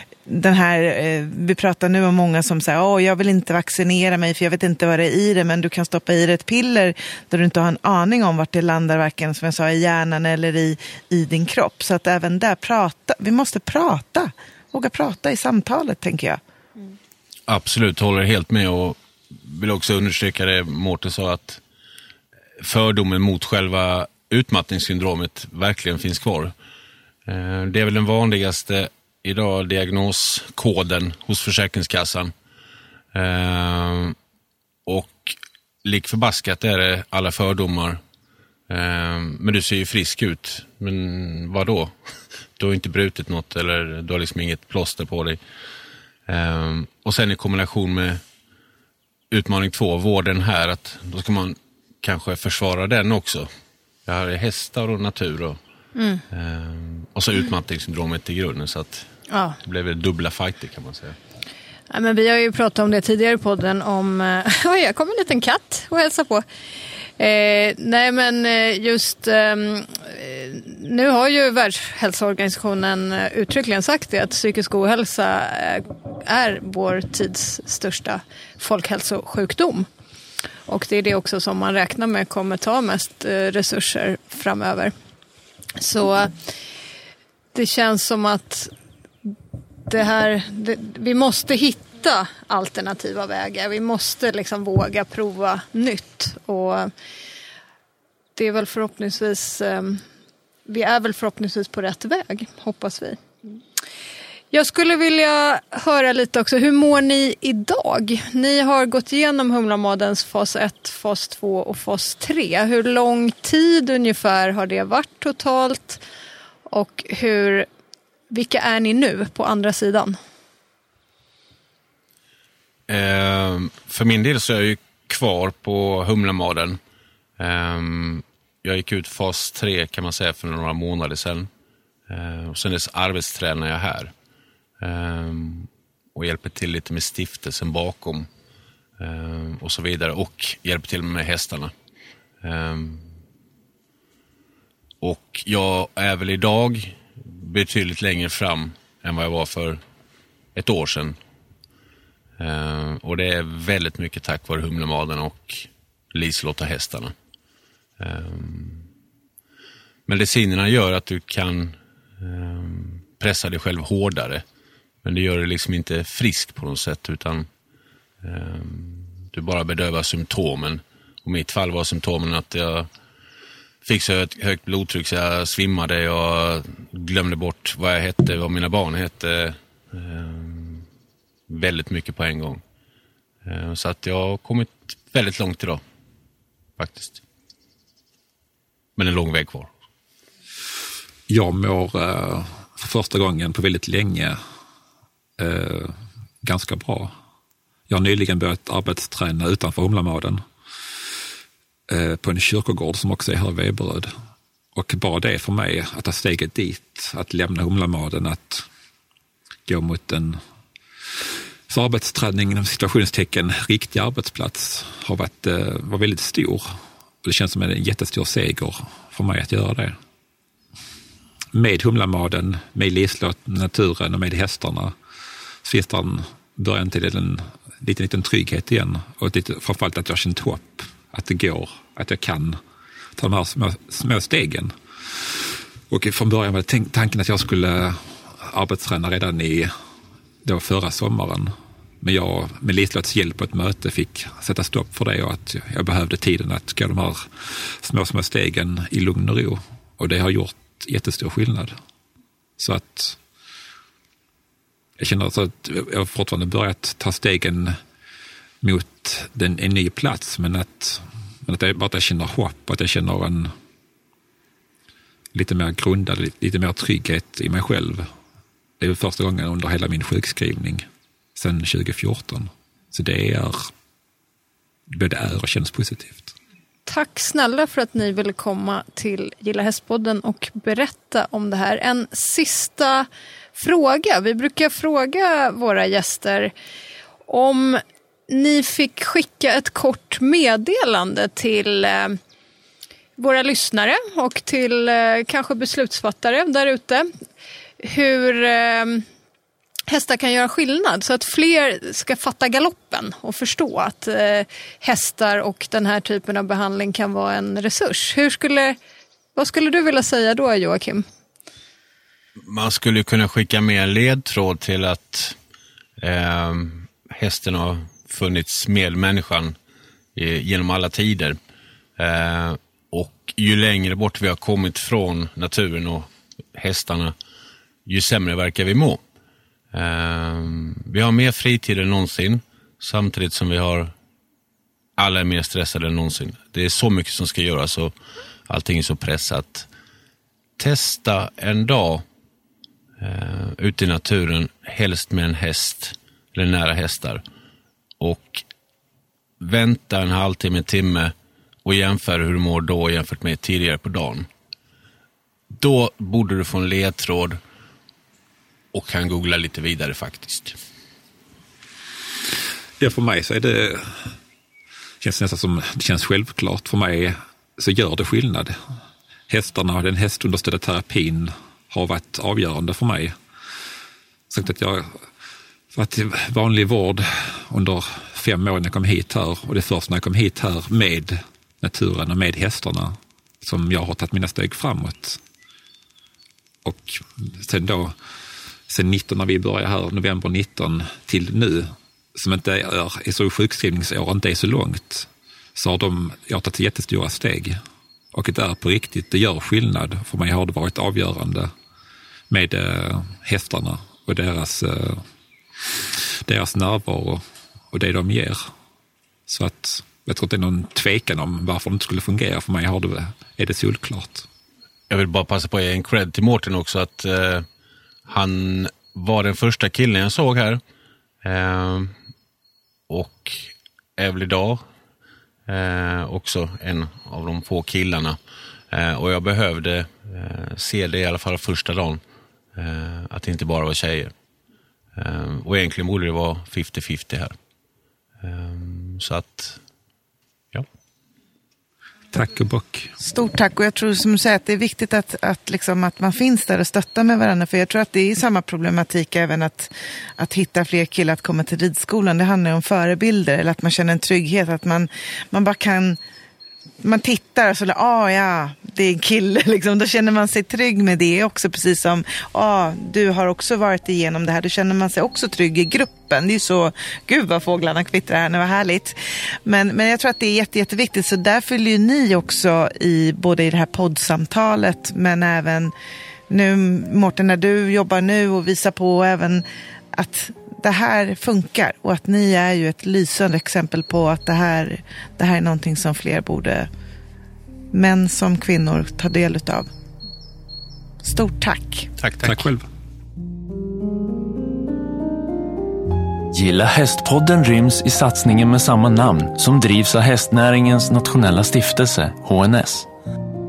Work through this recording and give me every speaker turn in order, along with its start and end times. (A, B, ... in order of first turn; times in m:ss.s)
0:00.2-0:16.4 A
0:17.5-0:21.6 B
0:22.6-0:26.5 B
0:27.3-0:32.3 B
0:33.1-0:34.2 B
0:34.9-0:38.0 B
0:38.7-0:41.9 B
0:42.6-0:45.4 B
0:46.3-0:48.2 B
0:49.3-0:53.5 B
0:54.1-0:55.6 B
0:55.9-0:56.2 C
0:56.3-0:59.1 B
0:59.3-0:59.6 C
0:59.6-1:01.2 B
1:01.9-1:06.4 C
1:07.2-1:19.9 C
1:20.7-1:24.9 C
1:25.8-1:26.4 C
1:27.5-1:28.7 C
1:29.9-1:36.9 C
1:38.4-1:40.0 C
1:40.7-1:43.2 C
1:44.5-1:56.0 C
1:56.7-1:57.7 C
1:58.3-2:00.2 C
2:02.9-2:06.8 B
2:07.4-2:11.5 B
2:12.1-2:14.1 B
2:14.8-2:18.3 B
2:19.0-2:21.7 B
2:22.4-2:23.1 B
2:25.0-2:29.8 B
2:30.6-2:31.2 B
2:32.4-2:37.1 B
2:38.0-2:38.9 B
2:40.1-2:44.4 B
2:45.0-2:47.5 B
2:48.2-2:52.9 B
2:53.8-3:00.9 B
3:01.5-3:02.6 B
3:03.4-3:05.8 B
3:06.8-3:07.2 B
3:09.0-3:09.7 B
3:11.3-3:14.4 D
3:15.4-3:17.1 D
3:17.9-3:20.4 D
3:21.9-3:24.1 D
3:24.8-3:28.6 D
3:29.6-3:30.4 D
3:31.2-3:40.0 D
3:41.5-3:44.9 D
3:45.6-3:52.6 D
3:53.2-3:59.7 D
4:00.4-4:11.8 D
4:12.6-4:13.2 D
4:15.0-4:17.8 D
4:18.6-4:23.5 D
4:25.3-4:28.1 D
4:28.8-4:30.8 D
4:31.4-4:33.7 D
4:34.9-4:36.3 D
4:36.9-4:46.5 C
4:47.3-4:52.2 C
4:53.2-4:57.1 C
4:57.8-4:59.0 C
4:59.9-5:08.8 C
5:09.4-5:11.0 C
5:12.4-5:15.4 B
5:16.0-5:19.6 B
5:20.1-5:21.4 B
5:22.0-5:27.1 B
5:27.9-5:29.0 B
5:29.7-5:33.9 B
5:35.0-5:37.9 B
5:38.5-5:39.7 B
5:40.6-5:42.0 B
5:43.0-5:47.2 B
5:48.0-5:48.4 B
5:49.4-5:51.1 B
5:51.6-5:54.3 B
5:55.5-5:57.4 B
5:58.7-6:00.6 B
6:02.8-6:04.1 D
6:05.0-6:08.6 D
6:09.3-6:13.1 D
6:14.3-6:15.0 D
6:15.7-6:25.2 D
6:26.6-6:27.9 D
6:28.7-6:37.6 D
6:38.1-6:41.5 D
6:42.3-6:45.0 D
6:45.6-6:48.5 D
6:49.3-6:54.3 D
6:54.9-6:57.5 B
6:58.1-7:00.6 B
7:01.2-7:01.9 B
7:02.9-7:04.6 B
7:05.5-7:08.2 B
7:08.7-7:12.0 B
7:12.6-7:14.1 B
7:15.0-7:17.4 B
7:18.2-7:19.6 B
7:22.1-7:22.9 D
7:23.0-7:36.0 A
7:36.8-7:55.7 A
7:56.3-8:06.7 A
8:07.7-8:09.7 A
8:11.0-8:11.9 A
8:12.0-8:12.4 B
8:12.2-8:12.6 D
8:16.3-8:22.9 E